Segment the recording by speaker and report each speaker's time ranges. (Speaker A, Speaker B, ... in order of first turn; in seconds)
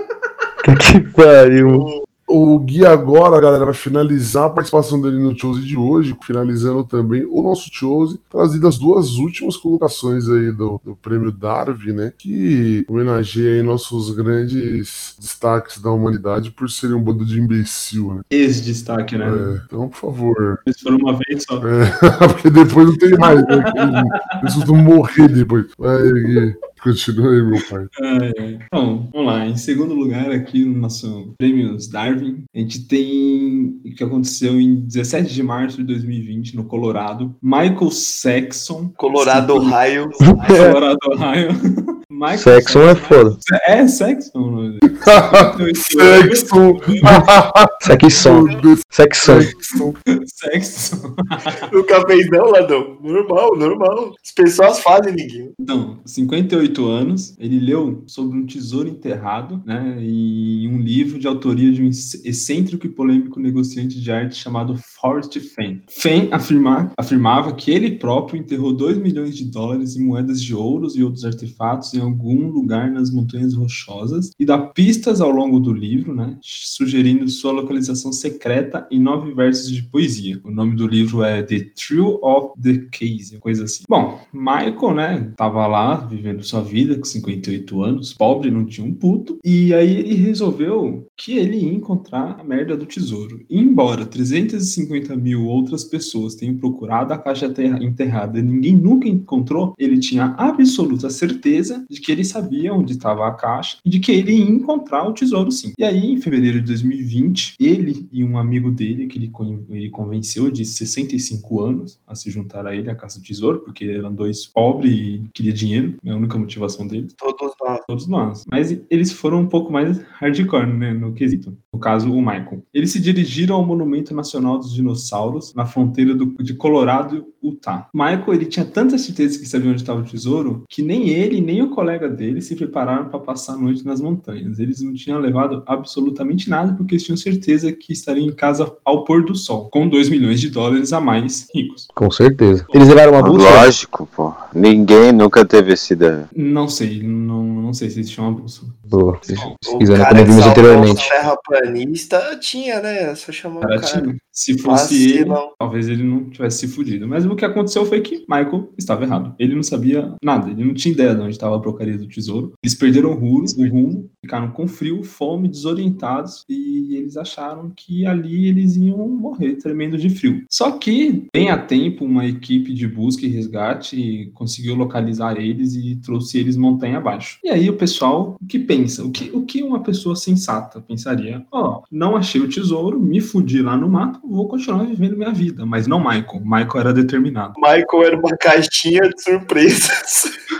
Speaker A: 0.6-1.9, 40.2-40.8, 42.3-43.4, 47.8-49.5, 141.9-143.7, 148.9-151.0
Speaker B: 1.6-2.0, 39.0-40.5, 51.6-55.5, 117.2-117.8, 149.6-154.1, 154.6-155.5, 187.6-190.3
Speaker C: 2.3-18.2, 19.2-20.6, 21.6-27.9, 45.0-50.0
Speaker D: 18.3-19.5, 20.6-21.7, 23.4-24.4, 28.0-39.8, 40.3-47.4, 50.2-51.6, 55.6-117.2, 117.9-141.9, 146.3-149.6, 150.9-151.2, 153.6-187.6
Speaker E: 143.2-146.3